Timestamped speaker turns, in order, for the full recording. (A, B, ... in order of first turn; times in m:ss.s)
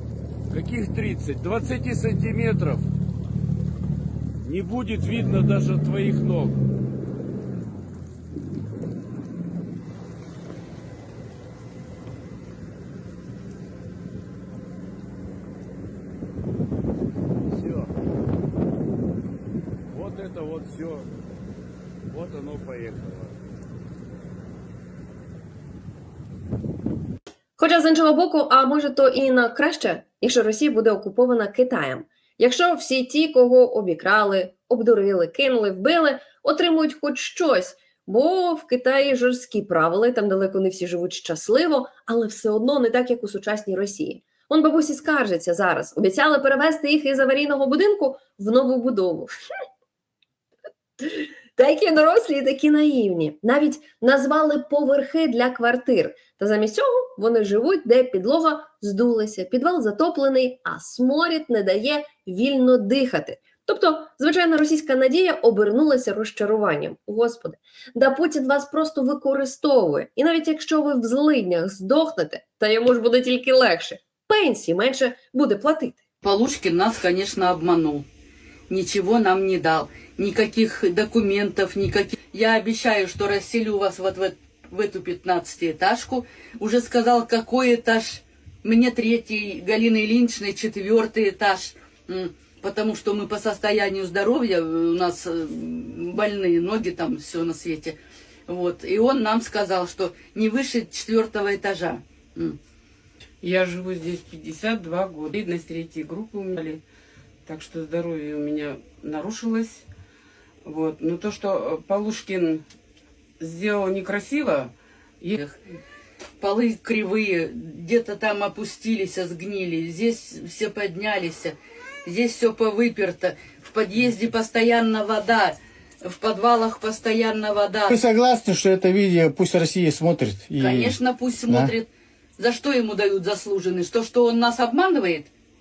0:00.5-0:02.9 A
0:04.4-0:06.6 A
0:17.5-0:17.9 A
0:19.9-0:21.1 A
0:22.1-0:23.4 A
0:27.6-0:49.3 B
0:51.0-1:16.0 B
1:16.2-1:18.1 C
1:18.7-1:38.0 C
1:38.5-1:42.6 C
1:43.4-1:46.8 D
1:47.5-1:49.8 D
1:50.6-1:52.6 D
1:53.4-1:54.7 D
1:56.4-2:08.0 C
2:07.9-2:11.0 E
2:10.6-2:15.3 C